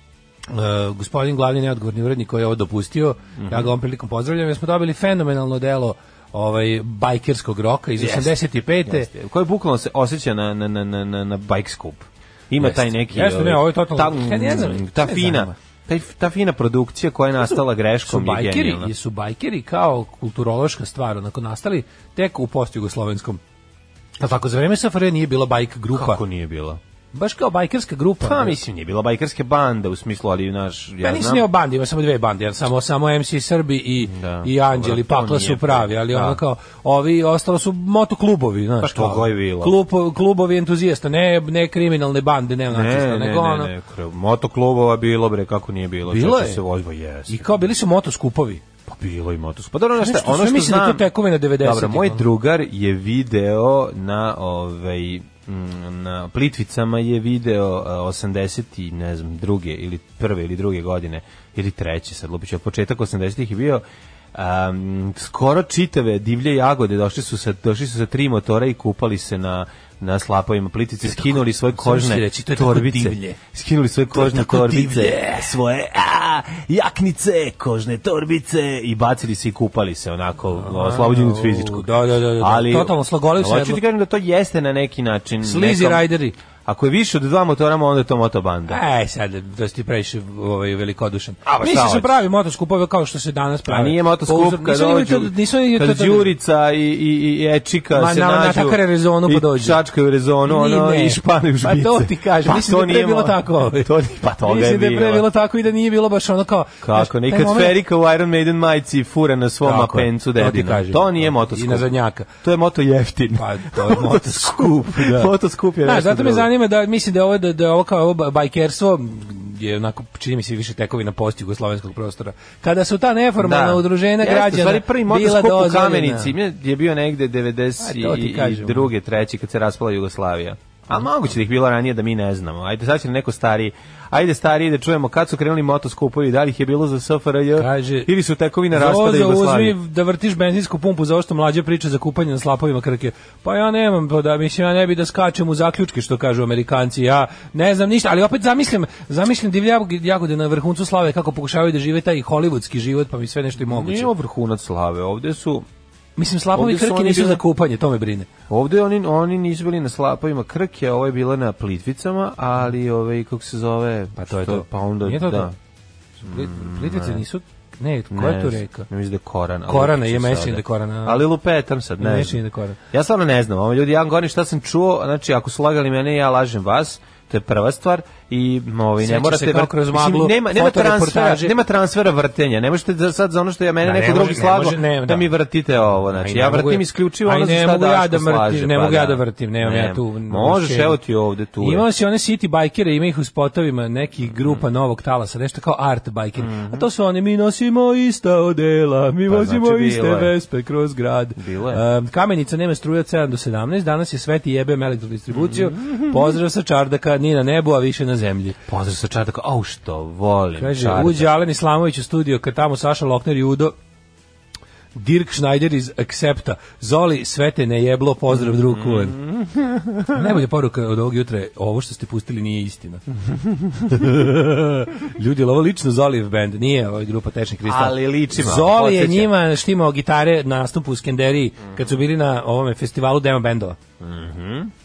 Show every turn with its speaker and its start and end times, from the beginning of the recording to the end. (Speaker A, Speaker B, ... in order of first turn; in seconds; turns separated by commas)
Speaker A: 0.5-9.1, Speaker B: 3.4-3.7, Speaker B: 8.0-18.9, Speaker A: 12.6-15.5, Speaker A: 17.4-23.4, Speaker A: 24.2-26.2, Speaker B: 25.9-26.8, Speaker A: 27.1-28.6, Speaker B: 28.2-31.4, Speaker A: 31.0-43.7, Speaker B: 34.0-36.4, Speaker B: 38.8-39.8, Speaker B: 42.7-47.5, Speaker A: 46.1-46.6, Speaker A: 47.3-48.6, Speaker B: 48.9-51.1, Speaker A: 50.0-52.2, Speaker B: 51.6-86.1, Speaker A: 71.0-73.4, Speaker A: 74.1-75.5, Speaker A: 80.6-83.8, Speaker A: 85.4-86.3, Speaker B: 86.7-88.8, Speaker A: 88.7-96.3, Speaker B: 91.4-92.2, Speaker B: 93.7-105.3, Speaker A: 97.9-99.8, Speaker A: 100.5-107.8, Speaker B: 106.8-116.5, Speaker A: 109.6-112.3, Speaker A: 113.3-115.3, Speaker A: 115.8-126.3, Speaker B: 123.4-139.8, Speaker A: 127.8-128.9, Speaker A: 137.6-138.1, Speaker A: 138.7-154.1, Speaker B: 153.7-155.7, Speaker A: 156.2-158.3, Speaker B: 156.5-157.4, Speaker B: 158.5-165.5, Speaker A: 164.2-165.5, Speaker A: 166.2-168.9, Speaker B: 166.2-167.2, Speaker B: 168.1-191.8, Speaker A: 169.7-171.2, Speaker A: 172.0-172.8, Speaker A: 179.0-181.6, Speaker A: 183.8-185.3, Speaker A: 186.1-191.0, Speaker A: 191.6-208.6, Speaker B: 196.4-196.8, Speaker B: 199.3-200.3, Speaker B: 201.4-201.8, Speaker B: 205.3-206.3, Speaker B: 208.7-211.3, Speaker A: 210.6-213.7, Speaker A: 214.9-219.2, Speaker B: 218.3-220.3, Speaker A: 220.1-223.0, Speaker B: 223.3-223.9, Speaker A: 223.9-233.8, Speaker B: 227.6-229.3, Speaker B: 234.0-234.7